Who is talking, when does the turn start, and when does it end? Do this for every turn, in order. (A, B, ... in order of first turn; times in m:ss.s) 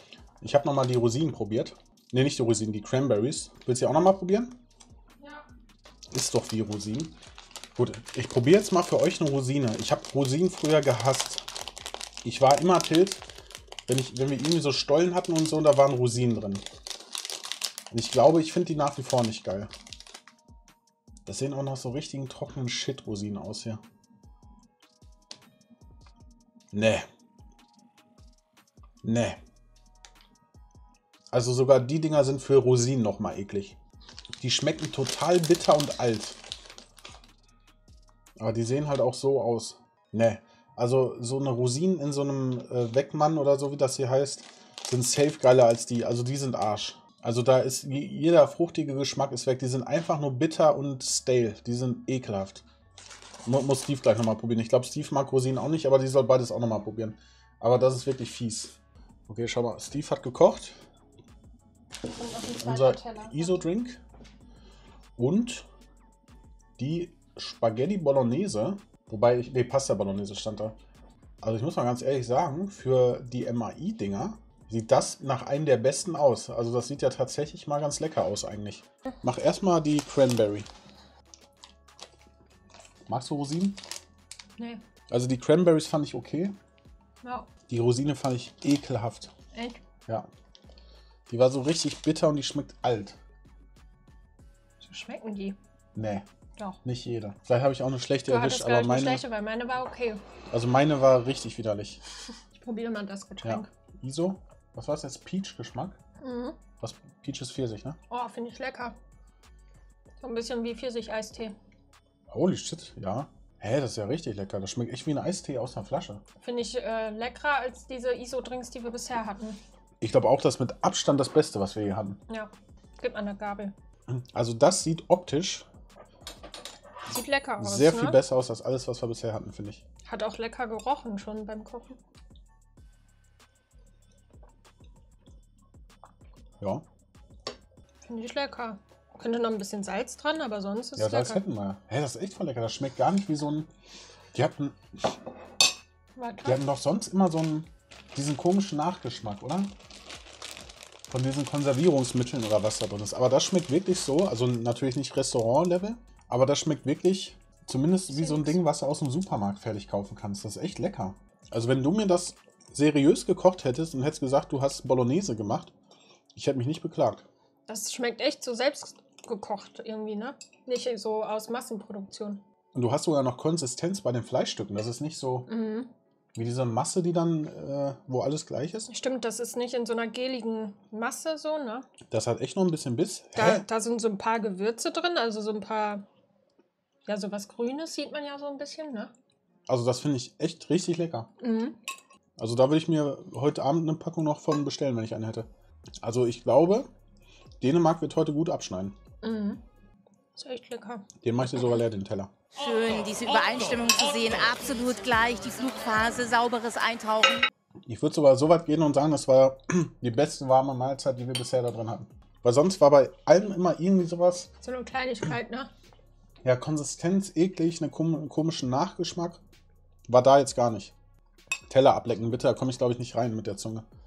0:00.4-0:04.6 A
0:05.2-0:05.5 B
0:06.1-0:07.2 A
0:07.8-0:11.4 A
0:12.2-0:13.2 A
0:13.9-0:16.6 A
0:17.9-0:19.7 A
0:21.3-0:23.8 A
0:26.7-0:27.1 A
0:29.0-0:29.4 A
0:31.3-0:33.8 A
0:34.4-0:36.4 A
0:38.4-0:52.6 A
0:53.5-0:58.8 A
0:59.3-1:00.8 A
1:02.0-1:03.6 B
1:02.6-1:04.0 A
1:05.2-1:05.7 A
1:06.8-1:10.8 A
1:11.4-1:20.7 A
1:23.1-1:23.8 A
1:25.1-1:26.6 A
1:27.2-1:27.5 B
1:27.7-1:29.3 A
1:29.5-1:29.8 B
1:31.3-1:33.2 A
1:34.8-1:35.6 B
1:36.0-1:36.2 A
1:36.8-1:39.2 A
1:38.3-1:40.2 B
1:40.5-1:42.0 A
1:42.5-1:43.7 B
1:43.4-1:46.0 A
1:46.2-1:46.6 B
1:46.8-1:48.0 A
1:48.1-1:49.0 B
1:50.2-1:51.6 B
1:52.3-1:56.2 A
1:56.4-1:59.6 B
2:00.0-2:02.2 A
2:02.3-2:03.7 B
2:04.1-2:05.7 A
2:07.1-2:08.2 B
2:07.6-2:09.8 A
2:10.1-2:12.0 B
2:18.0-2:21.4 B
2:21.0-2:23.7 A
2:24.3-2:24.9 A
2:26.2-2:26.6 B
2:26.4-2:29.7 A
2:31.1-2:45.7 A
2:38.1-2:38.6 B
2:46.4-2:47.2 A
2:47.7-2:52.4 B
2:52.7-2:55.5 A
2:55.5-2:55.9 B
2:56.4-2:58.9 A
2:58.9-3:01.9 B
3:02.1-3:03.6 A
3:03.4-3:06.0 B
3:07.1-3:09.1 B
3:09.7-3:11.3 A
3:11.4-3:11.8 B
3:12.4-3:15.5 A
3:16.0-3:16.9 A
3:17.6-3:19.0 A
3:19.2-3:19.6 B
3:20.4-3:21.1 B
3:21.2-3:22.3 A
3:22.6-3:27.5 C
3:27.9-3:34.5 A
3:34.6-3:35.7 B
3:36.4-3:39.4 A
3:40.1-3:40.9 A
3:41.7-3:43.8 A